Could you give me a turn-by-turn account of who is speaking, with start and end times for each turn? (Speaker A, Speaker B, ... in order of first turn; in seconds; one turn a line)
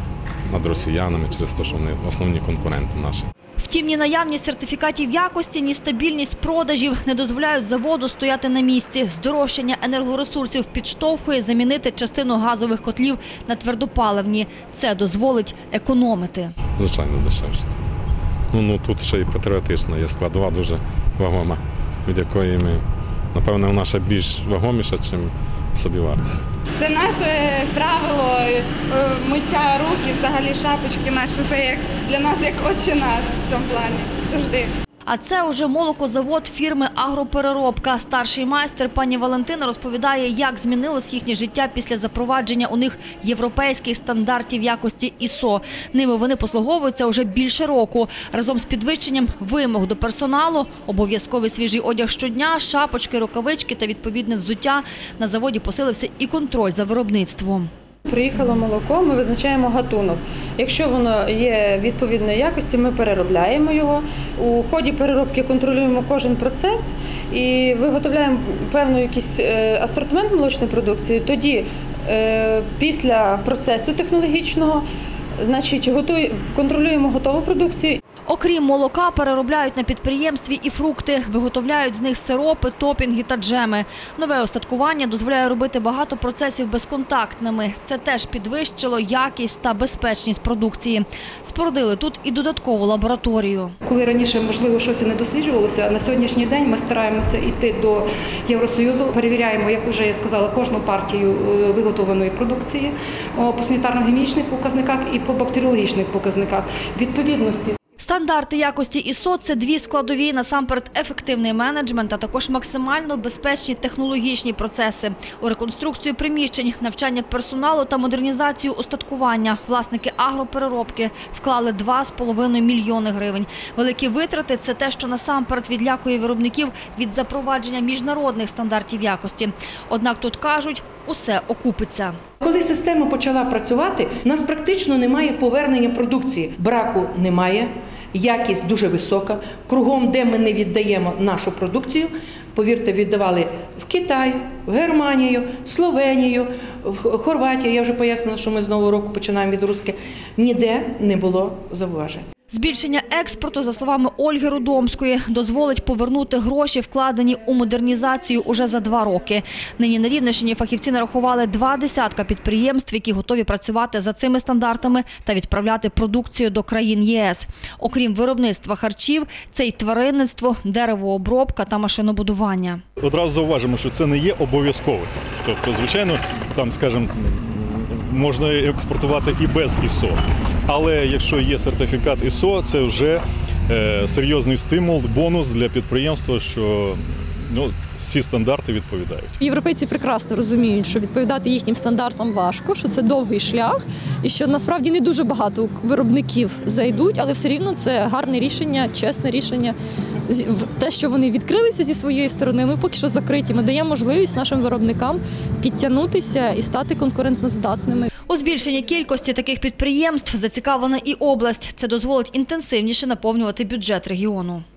Speaker A: 0.5-3.3
Speaker B: 3.6-16.5
Speaker A: 16.8-17.8
Speaker A: 18.5-22.8
Speaker A: 23.3-26.5
Speaker C: 26.8-34.7
Speaker B: 35.1-57.7
Speaker D: 58.0-74.9
Speaker D: 75.4-78.0
Speaker B: 78.3-93.7
Speaker E: 93.9-107.7
Speaker B: 108.0-132.2
Speaker F: 132.4-152.2
Speaker B: 152.5-172.8
Speaker G: 173.0-189.3
Speaker H: 189.4-199.8
Speaker H: 200.3-208.1
Speaker B: 208.3-214.6